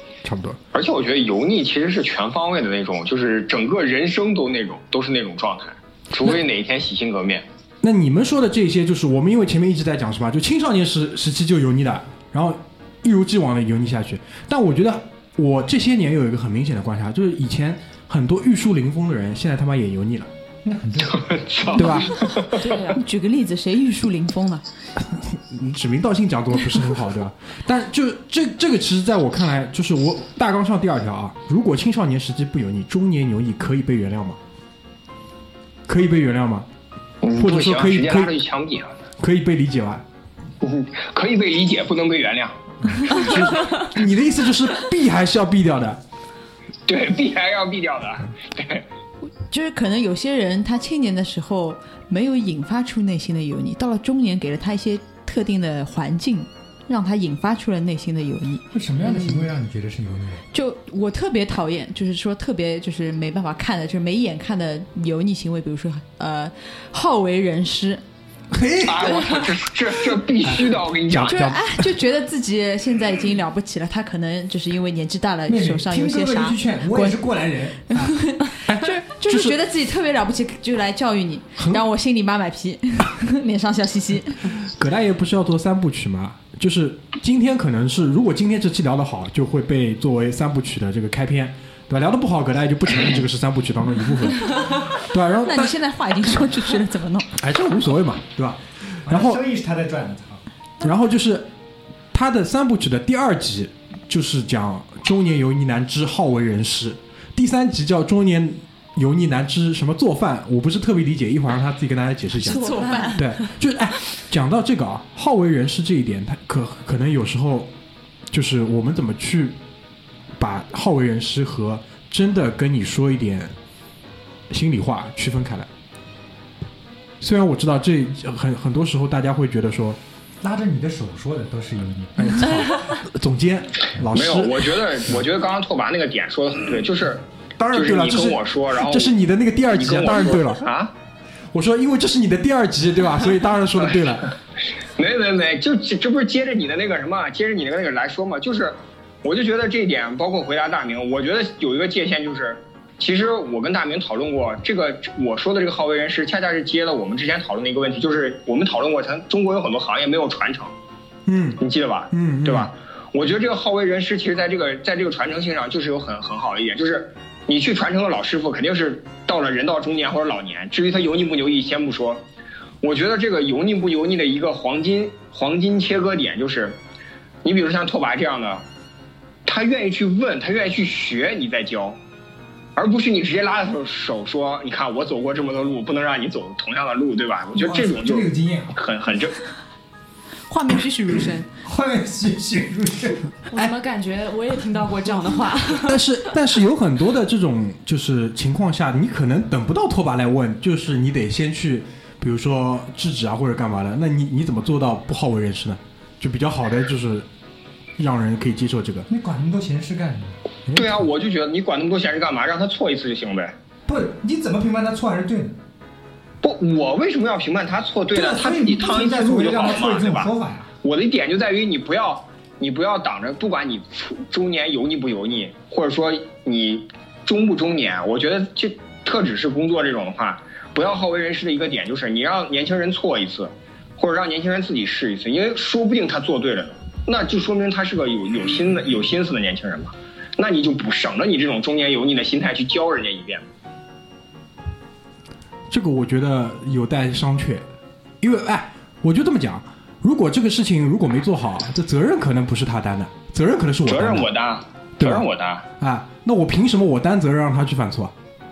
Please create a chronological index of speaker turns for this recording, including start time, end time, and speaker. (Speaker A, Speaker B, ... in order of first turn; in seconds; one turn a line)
Speaker A: 0.2-0.6
Speaker B: 0.7-7.5
Speaker A: 7.8-20.3
Speaker C: 20.6-21.8
Speaker B: 21.2-22.6
Speaker A: 21.8-22.2
Speaker D: 22.6-23.0
Speaker E: 22.9-24.6
Speaker A: 25.0-34.4
Speaker A: 35.9-36.7
Speaker B: 37.2-39.0
Speaker A: 37.4-38.3
Speaker A: 39.2-40.0
Speaker B: 40.6-42.6
Speaker A: 42.9-46.0
Speaker B: 46.9-48.9
Speaker E: 49.5-59.5
Speaker C: 58.7-60.5
Speaker E: 60.5-68.0
Speaker A: 68.6-69.0
Speaker B: 68.8-71.5
Speaker A: 70.5-72.0
Speaker E: 71.3-77.4
Speaker C: 75.5-78.2
Speaker E: 77.9-84.5
Speaker A: 78.7-79.6
Speaker A: 81.6-81.8
Speaker A: 84.6-95.8
Speaker E: 95.4-97.3
Speaker A: 97.4-99.4
Speaker C: 99.0-100.4
Speaker A: 100.8-101.5
Speaker A: 102.1-117.7
Speaker E: 112.4-113.3
Speaker D: 112.5-113.3
Speaker A: 118.3-119.6
Speaker A: 120.4-123.5
Speaker A: 124.5-125.7
Speaker A: 127.2-130.0
Speaker C: 130.4-132.2
Speaker A: 132.2-134.7
Speaker B: 134.1-139.2
Speaker A: 137.6-140.7
Speaker B: 139.7-140.9
Speaker A: 141.5-144.3
Speaker B: 144.0-144.2
Speaker B: 145.0-160.7
Speaker A: 161.3-162.7
Speaker B: 161.6-172.2
Speaker B: 172.8-176.8
Speaker B: 177.4-178.6
Speaker B: 179.5-182.0
Speaker B: 182.8-189.3
Speaker C: 187.6-188.8
Speaker E: 190.5-191.5
Speaker C: 191.6-193.4
Speaker D: 193.5-196.0
Speaker A: 195.7-207.3
Speaker A: 208.0-209.1
Speaker C: 209.1-210.4
Speaker A: 210.7-211.1
Speaker B: 210.7-213.5
Speaker C: 213.9-215.6
Speaker B: 216.4-220.3
Speaker C: 218.1-220.7
Speaker B: 220.8-243.4
Speaker A: 245.7-247.7
Speaker A: 248.2-254.3
Speaker B: 253.9-255.6
Speaker A: 255.0-255.3
Speaker A: 255.8-258.1